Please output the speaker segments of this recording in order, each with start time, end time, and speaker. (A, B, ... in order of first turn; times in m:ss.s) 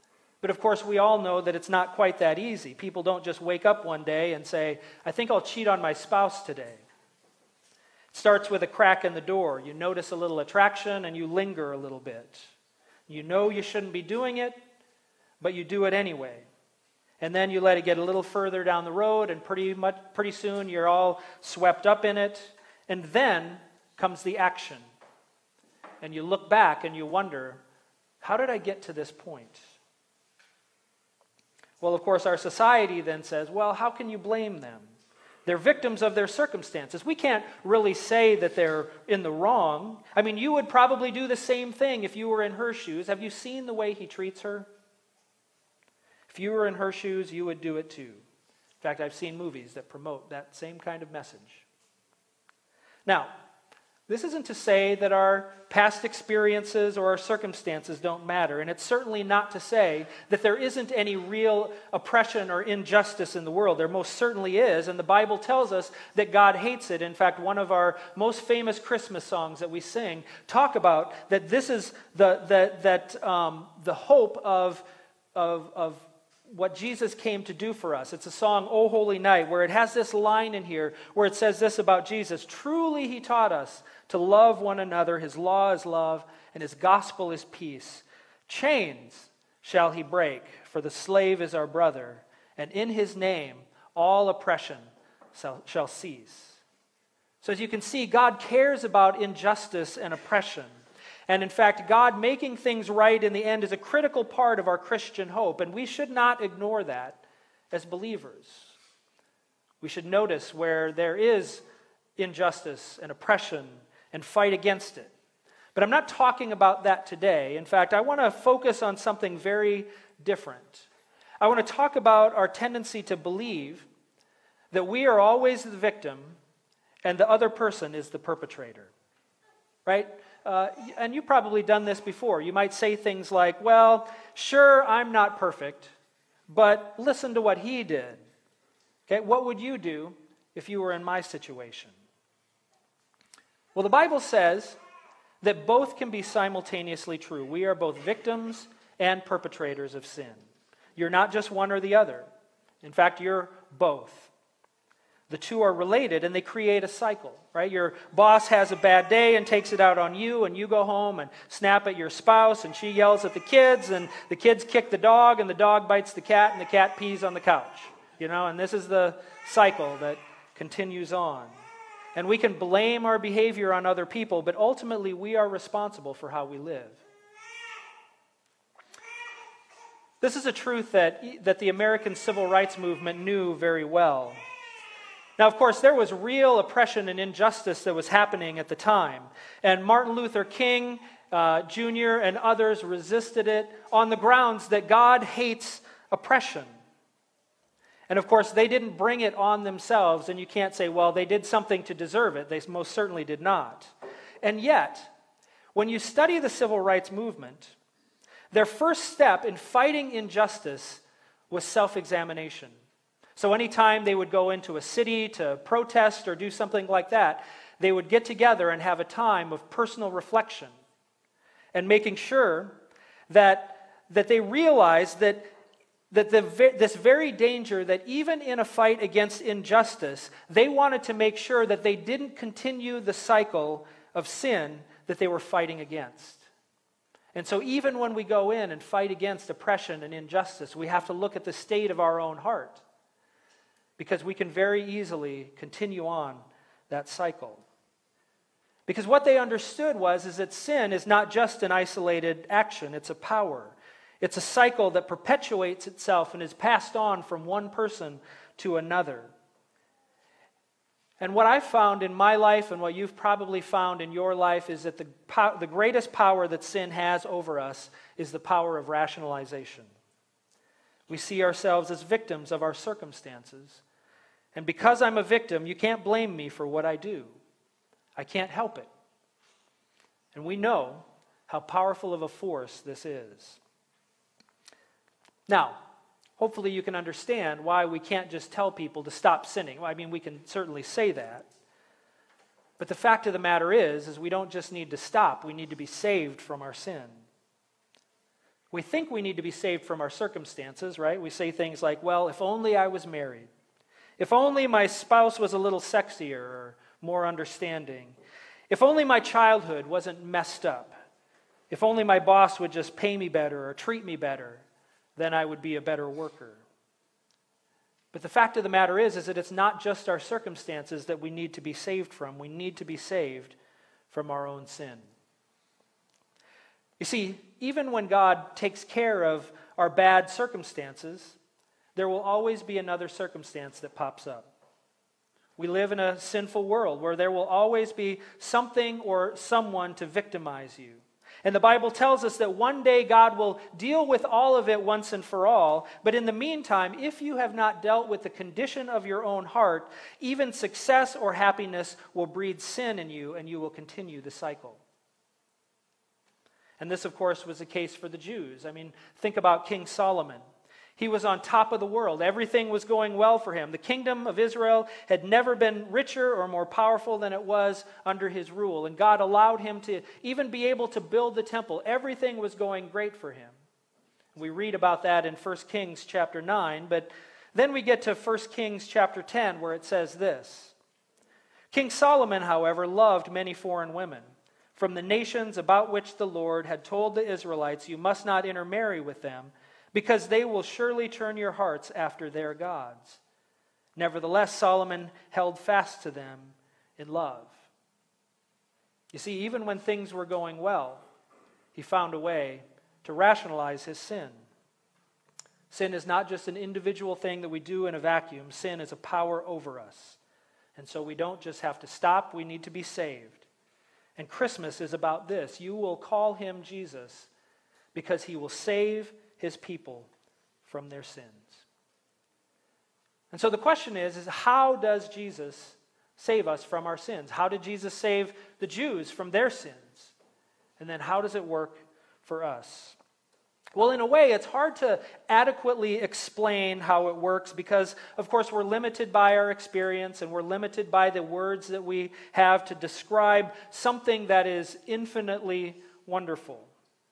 0:00.4-0:06.8 A
0:08.1-0:12.5 A
0:13.1-0:14.6 A
0:15.4-0:16.5 A
0:17.2-0:24.8 A
0:26.0-0:27.6 A
0:28.2-0:29.6 A
0:31.8-0:34.9 A
0:35.4-0:44.7 A
0:46.3-0:48.2 A
0:48.8-0:51.6 A
0:53.0-0:53.3 A
0:54.1-1:36.6 A
1:37.4-1:40.7 A
1:41.3-1:47.2 A
1:47.7-1:48.7 A
1:49.8-1:51.6 A
1:52.2-1:55.1 A
1:55.7-2:00.9 A
2:01.4-2:03.8 A
2:04.7-2:06.4 A
2:07.0-2:08.9 A
2:09.8-2:15.9 A
2:16.5-2:18.2 A
2:19.1-2:21.9 A
2:23.7-2:24.8 A
2:25.4-2:30.4 A
2:31.0-2:32.2 A
2:32.8-2:34.3 A
2:35.3-2:51.5 A
2:52.1-2:57.0 A
3:00.2-3:04.4 A
3:05.4-3:16.7 A
3:18.1-3:25.1 A
3:25.7-3:27.7 A
3:28.5-3:32.8 A
3:33.4-3:40.7 A
3:41.7-3:45.4 A
3:46.1-3:56.4 A
3:57.3-4:02.8 A
4:04.0-4:07.6 A
4:08.9-4:19.3 A
4:21.2-4:29.9 A
4:31.1-4:33.8 A
4:34.5-4:37.4 A
4:38.2-4:38.9 A
4:40.3-4:43.6 A
4:45.5-4:45.8 A
4:46.4-4:51.5 A
4:52.8-4:57.2 A
4:58.7-5:03.5 A
5:04.2-5:08.2 A
5:08.7-5:10.9 A
5:11.7-5:14.6 A
5:15.2-5:16.6 A
5:18.1-5:23.5 A
5:24.1-5:25.0 A
5:27.0-5:31.4 A
5:32.0-5:34.5 A
5:35.6-5:54.8 A
5:56.8-6:00.4 A
6:01.0-6:13.5 A
6:14.3-6:20.7 A
6:21.7-6:33.2 A
6:34.0-6:37.6 A
6:39.1-6:41.0 A
6:41.7-6:44.4 A
6:45.7-6:50.2 A
6:50.8-6:53.4 A
6:54.2-6:57.3 A
6:57.9-7:00.1 A
7:00.6-7:01.6 A
7:03.3-7:10.1 A
7:10.8-7:13.0 A
7:13.7-7:26.7 A